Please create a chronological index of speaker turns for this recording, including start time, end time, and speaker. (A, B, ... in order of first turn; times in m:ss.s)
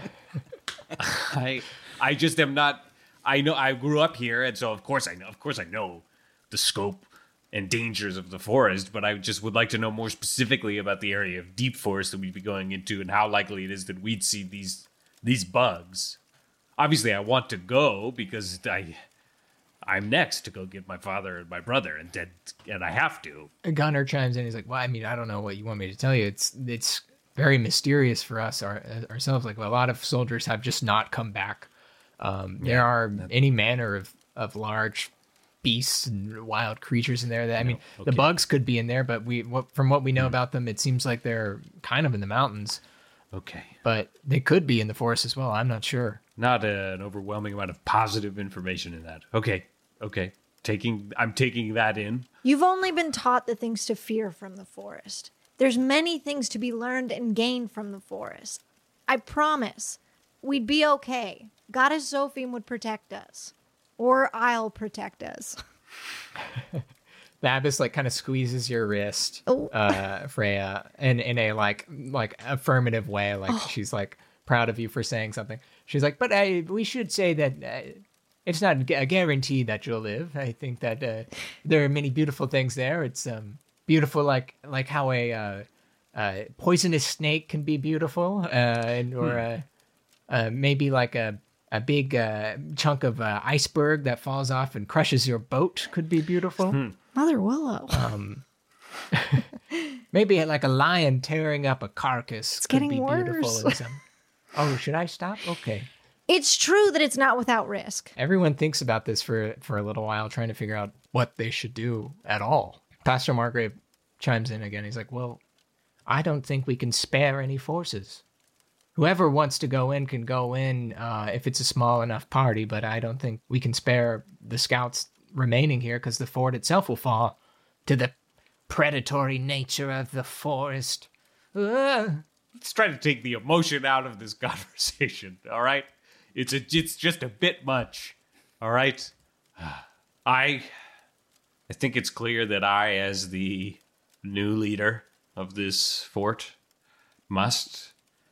0:01.0-0:16.2 A
0:16.8-0:19.0 A
0:19.8-0:23.5 A
0:23.6-0:35.1 B
0:32.6-0:33.3 A
0:35.6-0:42.8 B
0:37.6-0:38.3 A
0:43.3-0:43.8 A
0:43.8-0:46.2 B
0:46.4-0:52.3 A
0:52.4-1:05.6 C
1:06.5-1:06.8 B
1:07.4-1:29.6 B
1:09.5-1:09.7 C
1:30.3-1:36.8 B
1:36.7-1:36.9 A
1:37.1-1:38.1 C
1:37.9-1:38.4 B
1:39.1-1:39.5 B
1:40.1-1:44.0 B
1:42.6-1:43.8 C
1:44.5-1:45.9 B
1:46.3-1:48.1 C
1:48.2-1:55.4 B
1:56.1-1:58.2 B
1:58.9-2:08.1 B
2:08.7-2:12.2 B
2:12.6-2:20.7 A
2:21.7-2:26.6 A
2:27.3-2:27.9 A